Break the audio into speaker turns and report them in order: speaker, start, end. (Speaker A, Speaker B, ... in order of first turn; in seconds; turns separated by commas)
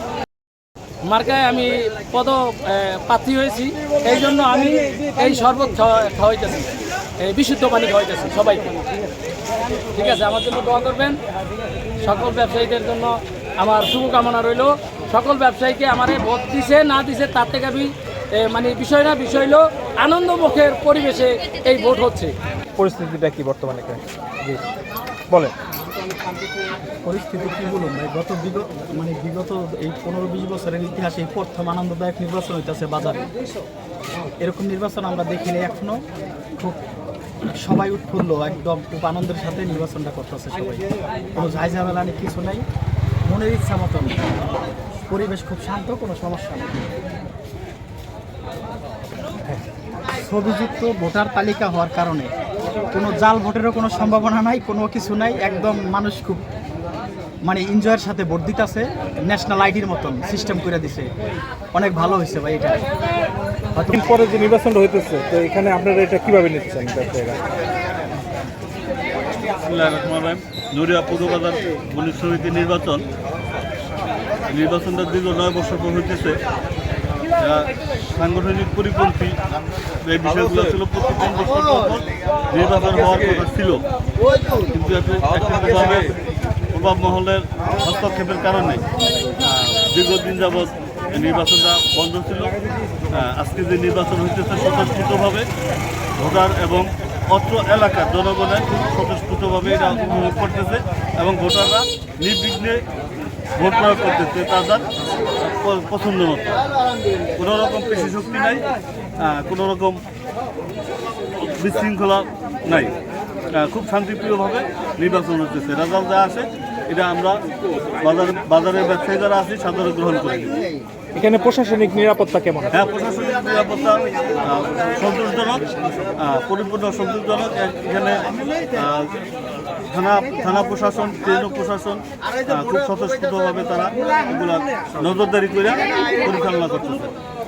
Speaker A: 1.1-6.7, Speaker A: 7.2-8.7, Speaker A: 9.9-11.2, Speaker A: 12.0-17.9, Speaker A: 18.4-22.3, Speaker B: 22.8-24.6, Speaker C: 27.0-33.3, Speaker C: 34.4-36.0, Speaker C: 37.6-42.6, Speaker C: 43.2-44.3, Speaker C: 45.1-46.9, Speaker C: 50.2-52.3, Speaker C: 52.9-56.4, Speaker C: 57.4-61.1, Speaker C: 61.7-62.9, Speaker C: 63.8-64.3, Speaker B: 63.9-67.4, Speaker D: 69.7-73.0, Speaker D: 74.5-76.3, Speaker D: 78.2-79.3, Speaker D: 80.1-82.0, Speaker D: 82.5-83.8, Speaker D: 84.7-86.1, Speaker D: 86.8-88.8, Speaker D: 89.8-92.5, Speaker D: 93.2-95.5, Speaker D: 96.2-102.8, Speaker D: 103.6-104.8, Speaker D: 105.5-106.6, Speaker D: 107.4-108.6, Speaker D: 109.4-110.0, Speaker D: 111.6-112.9, Speaker D: 113.6-117.3, Speaker D: 118.0-120.5, Speaker B: 121.2-122.7, Speaker D: 122.8-125.6, Speaker D: 126.2-128.2, Speaker D: 129.9-137.1